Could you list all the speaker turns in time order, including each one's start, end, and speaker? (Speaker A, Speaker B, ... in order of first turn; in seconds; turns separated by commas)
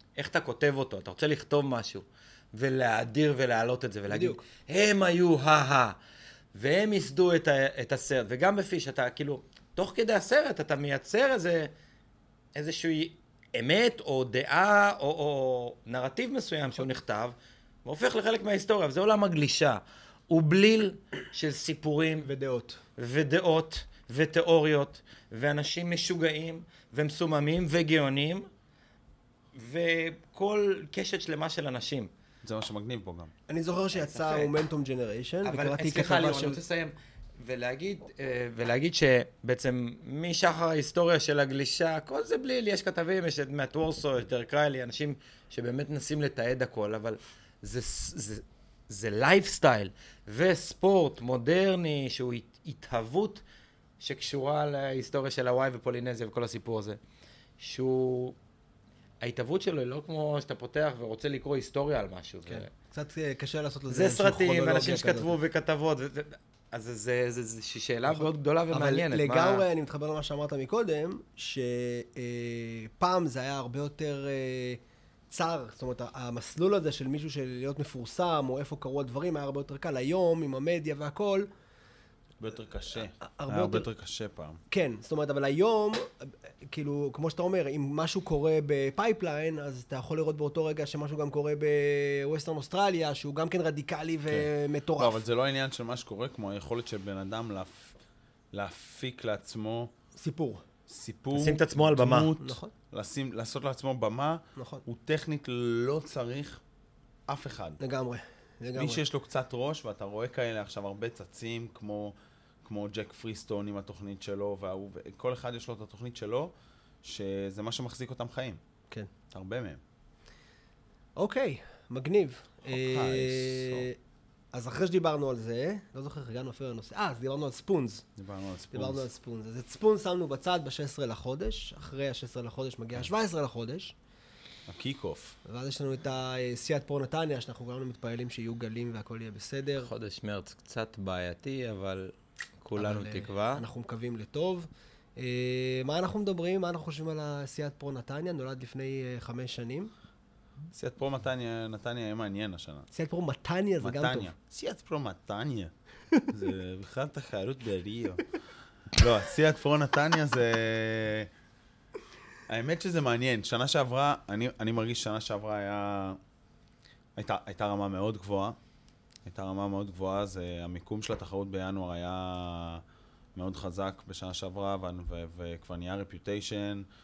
Speaker A: 0.2-6.0, Speaker B: 4.1-4.4, Speaker A: 6.5-11.7, Speaker A: 12.6-22.3, Speaker B: 22.2-22.8, Speaker A: 23.0-28.5, Speaker A: 29.5-32.1, Speaker C: 32.4-33.3, Speaker B: 33.5-36.6, Speaker A: 33.9-34.5, Speaker A: 35.5-53.4, Speaker A: 54.0-57.0, Speaker A: 57.6-58.4, Speaker A: 59.2-62.7, Speaker B: 62.5-65.3, Speaker A: 63.9-69.7, Speaker B: 68.1-81.5, Speaker C: 82.4-84.6, Speaker B: 83.0-83.9, Speaker B: 84.7-95.2, Speaker C: 94.3-98.0, Speaker C: 98.5-99.9, Speaker B: 100.2-100.6, Speaker C: 100.9-106.6, Speaker A: 101.3-102.3, Speaker B: 102.4-102.7, Speaker B: 104.6-104.8, Speaker C: 107.3-107.8, Speaker B: 107.8-109.0, Speaker C: 108.8-118.6, Speaker C: 119.3-119.8, Speaker B: 121.2-124.0, Speaker C: 122.7-123.9, Speaker B: 124.5-128.1, Speaker C: 128.2-129.1, Speaker B: 128.7-134.0, Speaker C: 134.7-135.4, Speaker B: 135.4-139.9, Speaker A: 139.8-143.7, Speaker B: 142.8-149.9, Speaker C: 150.7-152.9, Speaker B: 152.9-154.3, Speaker C: 153.8-155.7, Speaker C: 156.3-158.2, Speaker C: 159.0-161.3, Speaker C: 162.5-166.2, Speaker C: 167.2-168.6, Speaker C: 169.2-172.8, Speaker C: 173.3-176.8